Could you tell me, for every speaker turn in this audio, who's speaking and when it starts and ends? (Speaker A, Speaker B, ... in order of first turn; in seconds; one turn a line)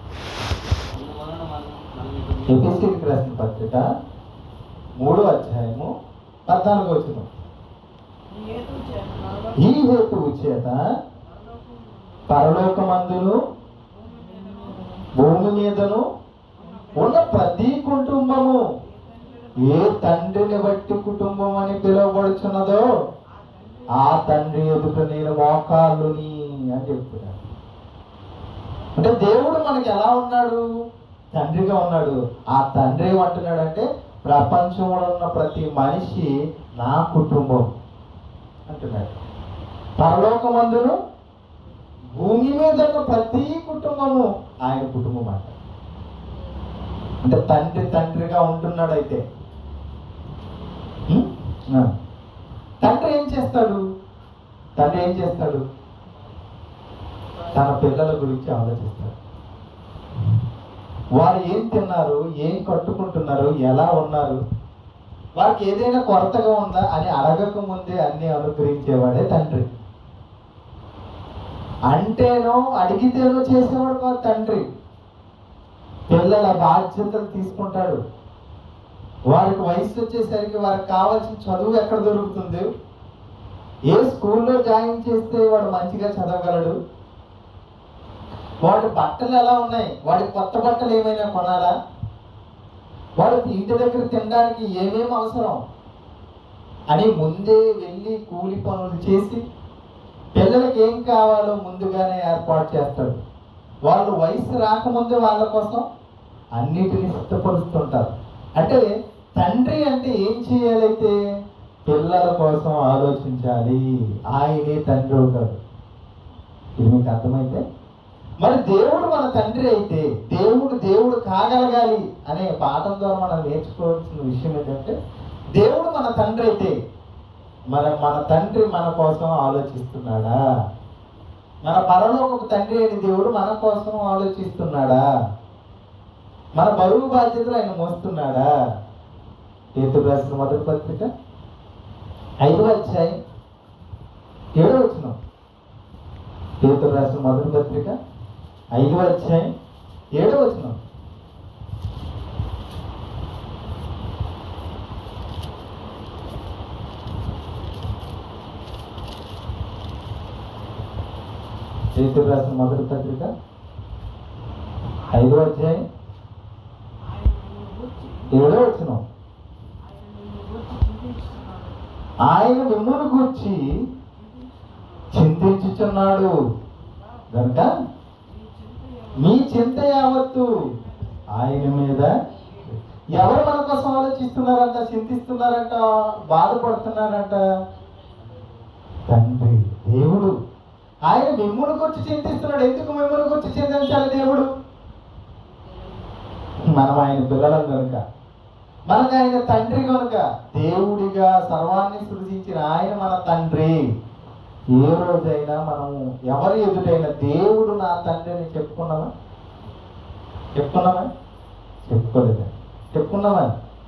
Speaker A: 0.9-2.8
Speaker B: 2.5-3.9
Speaker B: 5.0-5.9
Speaker B: 6.5-7.3
Speaker C: 8.3-9.7
Speaker B: 9.6-10.8
Speaker C: 11.2-12.6
Speaker B: 12.3-13.4
Speaker C: 13.9-15.0
Speaker B: 15.1-16.1
Speaker C: 16.5-17.5
Speaker B: 16.9-18.6
Speaker C: 18.8-20.0
Speaker B: 19.6-22.9
Speaker C: 23.3-24.4
Speaker B: 23.9-27.4
Speaker B: 28.9-30.6
Speaker B: 31.3-37.7
Speaker B: 38.7-39.1
Speaker B: 40.0-41.0
Speaker B: 42.1-45.5
Speaker B: 47.2-49.2
Speaker B: 51.1-51.9
Speaker B: 52.8-53.8
Speaker B: 54.8-55.6
Speaker B: 57.5-59.1
Speaker B: 61.2-64.4
Speaker B: 65.3-69.8
Speaker B: 71.9-74.6
Speaker B: 76.1-78.0
Speaker B: 79.3-82.7
Speaker B: 83.9-86.7
Speaker B: 88.6-91.7
Speaker B: 93.2-95.6
Speaker B: 96.9-99.4
Speaker B: 100.3-103.2
Speaker B: 103.8-105.8
Speaker B: 106.5-111.1
Speaker B: 111.9-115.6
Speaker B: 116.8-117.6
Speaker B: 118.4-125.0
Speaker B: 125.5-126.7
Speaker B: 127.7-130.3
Speaker B: 131.6-135.0
Speaker B: 136.6-138.5
Speaker B: 139.8-141.1
Speaker B: 142.4-143.2
Speaker B: 144.6-145.2
Speaker B: 146.6-147.9
Speaker B: 148.7-149.5
Speaker B: 150.1-150.8
Speaker B: 161.9-163.3
Speaker C: 165.0-165.4
Speaker B: 165.1-165.8
Speaker C: 167.0-168.3
Speaker B: 168.3-169.0
Speaker C: 169.8-171.8
Speaker B: 172.2-173.9
Speaker C: 174.2-175.1
Speaker B: 175.1-176.3
Speaker C: 176.7-177.3
Speaker B: 177.3-177.7
Speaker C: 178.2-181.4
Speaker B: 179.2-180.6
Speaker B: 181.3-182.1
Speaker C: 182.4-182.7
Speaker B: 182.7-187.4
Speaker A: 188.2-188.6
Speaker B: 189.1-190.3
Speaker B: 191.1-194.5
Speaker B: 196.6-198.0
Speaker B: 198.9-203.8
Speaker B: 204.7-209.1
Speaker B: 210.5-211.1
Speaker B: 211.8-213.5